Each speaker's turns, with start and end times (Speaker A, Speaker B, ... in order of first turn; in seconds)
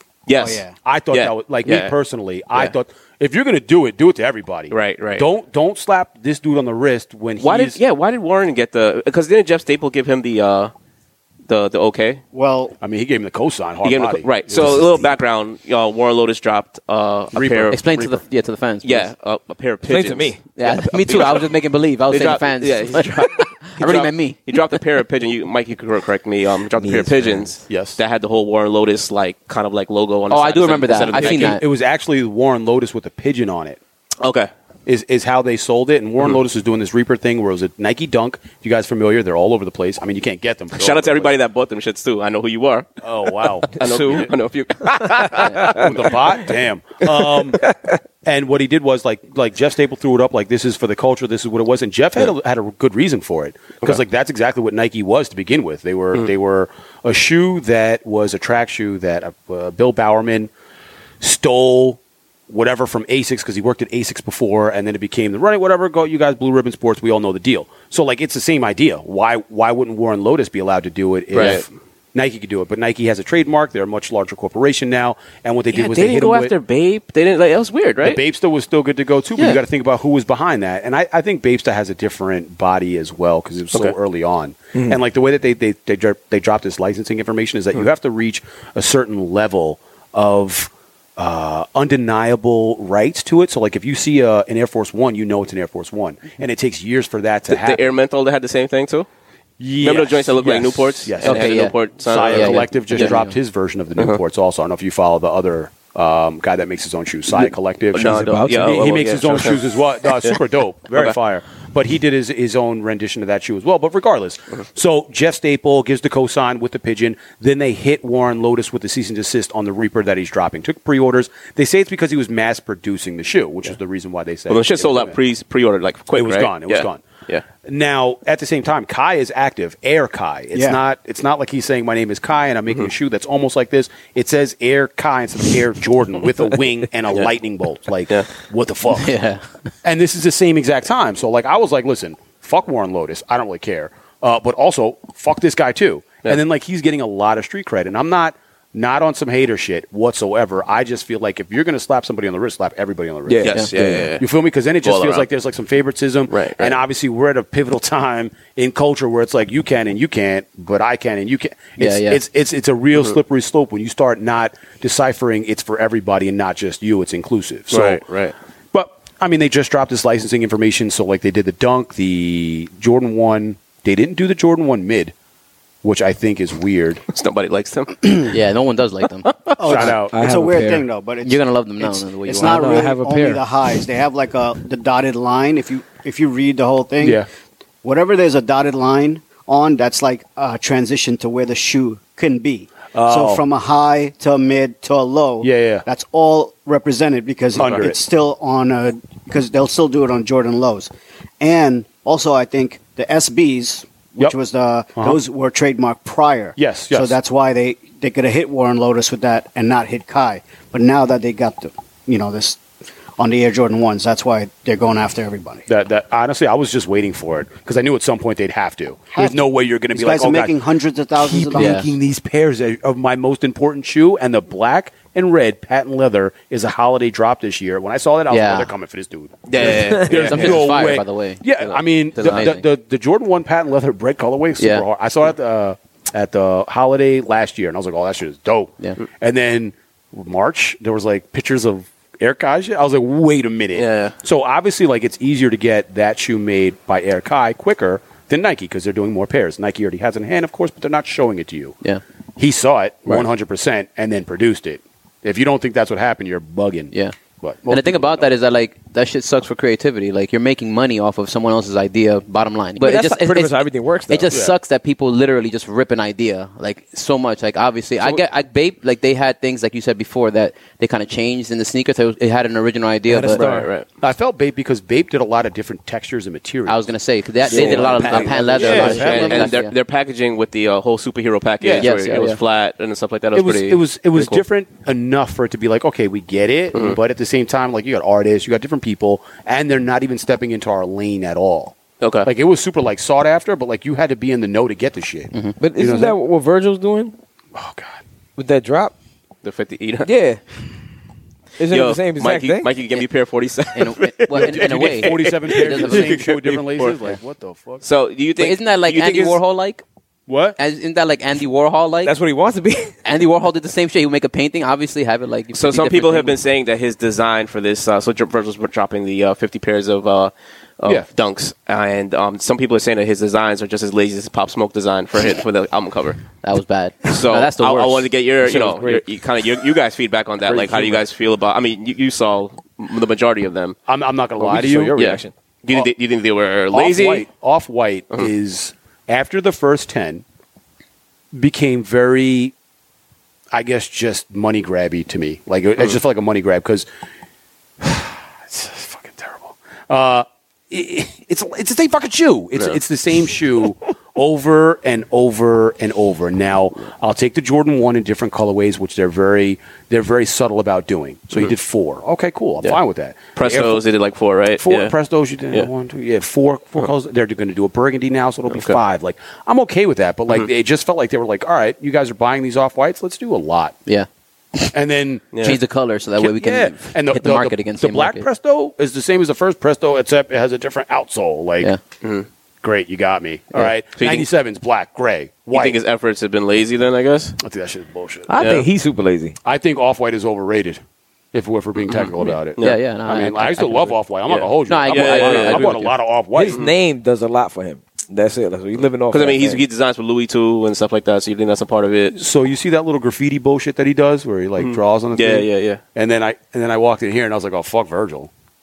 Speaker A: 0.3-1.9, 4.7-5.3, 7.4-10.7, 11.5-12.2, 13.8-18.0, 18.8-21.5, 22.1-31.6, 34.2-34.5, 40.8-43.0, 43.6-46.1, 71.3-71.6, 75.7-78.2, 97.5-99.1, 99.8-103.1, 107.9-109.6, 124.5-127.4, 153.4-154.2, 154.8-155.2, 156.3-156.8, 167.7-168.3, 177.1-178.3, 179.2-179.5, 229.5-230.7, 243.7-244.1, 273.3-273.9, 278.0-284.4, 292.0-292.3, 299.4-300.1, 301.7-307.0, 307.8-309.4, 315.5-326.2, 327.1-333.8, 334.9-337.2, 363.3-364.9, 368.5-368.8, 375.3-375.6, 382.0-382.3, 383.9-384.2, 385.5-387.4, 388.4-388.6, 394.3-395.7, 399.1-402.1, 404.6-405.8
Speaker B: 0.4-0.7, 12.3-12.8, 130.5-130.8, 179.6-187.2, 187.8-212.6, 213.2-215.6, 219.1-221.8
Speaker C: 0.8-7.8, 12.8-15.0, 17.3-18.2, 27.7-28.0, 31.1-33.8, 34.9-41.4, 43.0-44.3, 45.5-47.6, 48.2-60.5, 61.2-76.5, 78.0-97.8, 99.6-125.2, 126.1-127.0, 127.6-139.1, 139.8-153.6, 154.2-168.0, 168.7-175.1, 175.8-177.0, 179.6-180.1, 187.0-187.3, 192.9-193.4, 195.4-195.8, 197.6-198.0, 206.6-207.2, 215.7-220.6, 221.2-251.8, 252.4-258.3, 264.3-264.6, 274.0-276.9, 277.4-279.5, 281.6-281.9, 283.3-296.1, 297.5-298.0, 304.3-307.8, 310.3-310.6, 330.4-331.0, 333.9-335.2, 336.7-340.2, 341.3-342.5, 343.5-346.9, 347.8-363.8, 364.6-373.8, 374.7-375.4, 376.2-381.7, 382.6-385.8, 387.4-388.3, 389.4-390.8, 391.3-396.6, 402.1-408.3
Speaker D: 17.7-19.1, 20.6-24.4, 30.3-31.6, 101.2-103.3, 138.9-139.4, 161.8-162.2, 178.2-179.3, 181.2-182.8, 221.5-221.9, 228.3-228.7, 229.9-232.6, 234.6-234.8, 257.7-273.4, 276.6-279.7, 281.8-282.4, 303.7-306.3, 308.4-309.8, 310.6-312.1, 313.0-316.4, 326.4-328.1, 373.9-374.7, 375.4-378.2, 392.6-393.9, 394.7-395.9
Speaker E: 19.8-20.4, 26.8-27.6, 43.8-44.3, 45.0-45.8, 108.0-109.2, 153.3-154.1, 180.1-180.8, 182.3-183.4, 262.8-264.4, 273.1-273.7, 277.4-279.3, 295.6-297.1, 298.4-298.9, 300.0-300.4, 301.6-302.7, 312.0-312.9, 328.4-329.0, 334.4-335.3, 388.3-389.4, 396.3-399.6